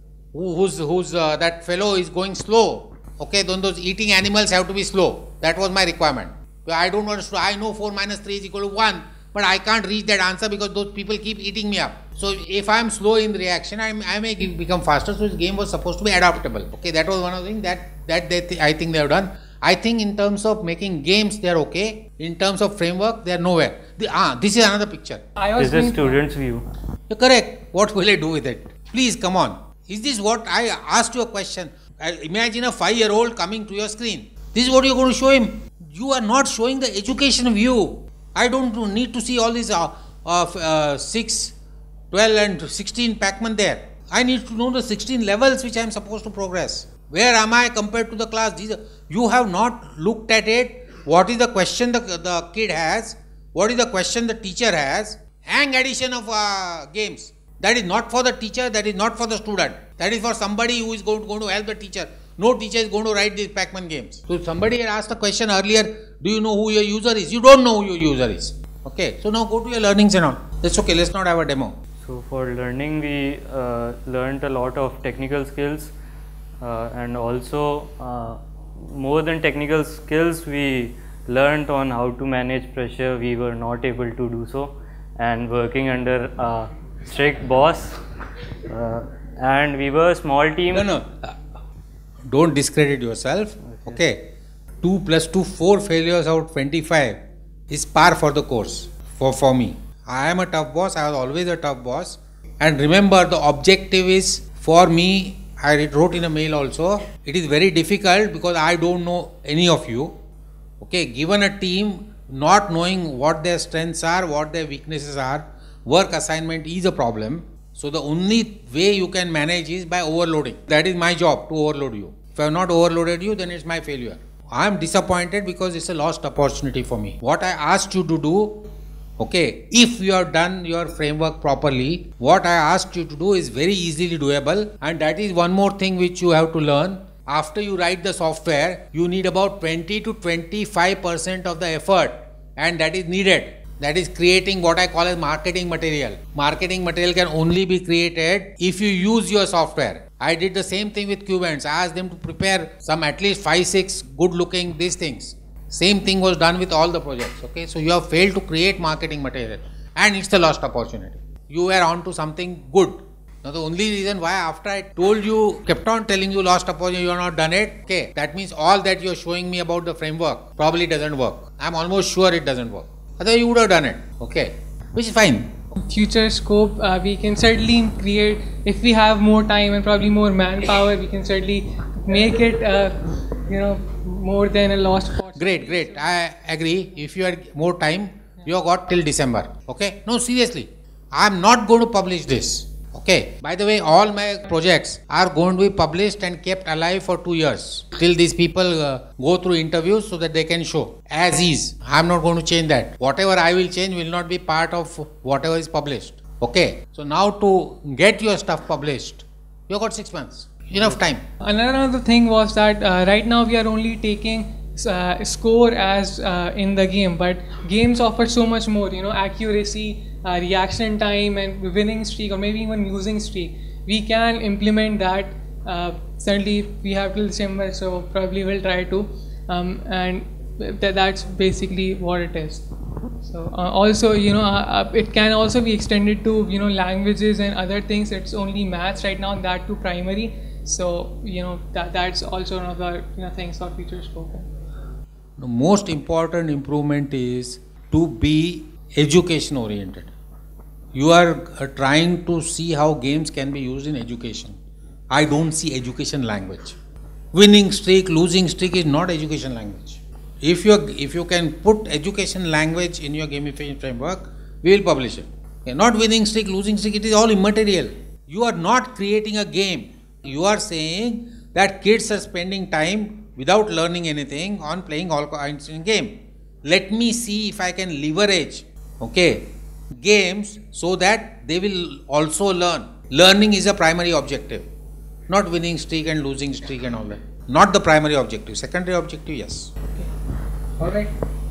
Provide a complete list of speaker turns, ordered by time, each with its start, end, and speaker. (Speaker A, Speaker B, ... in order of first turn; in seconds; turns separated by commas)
Speaker A: 0.3-25.2, Speaker B: 25.4-26.2, Speaker C: 25.6-26.6, Speaker A: 27.1-41.5, Speaker A: 42.1-71.7, Speaker C: 72.0-75.9, Speaker C: 76.6-88.0, Speaker C: 88.7-90.9, Speaker A: 90.7-91.4, Speaker A: 92.3-94.3, Speaker C: 93.7-94.0, Speaker A: 94.8-110.1, Speaker A: 110.8-128.7, Speaker A: 129.2-175.7, Speaker B: 175.8-186.2, Speaker A: 185.4-211.2, Speaker B: 211.4-232.7, Speaker B: 233.2-244.5, Speaker A: 245.4-250.1, Speaker A: 250.9-254.6, Speaker A: 255.1-256.8, Speaker A: 257.3-284.7, Speaker A: 285.3-289.7, Speaker B: 290.8-291.1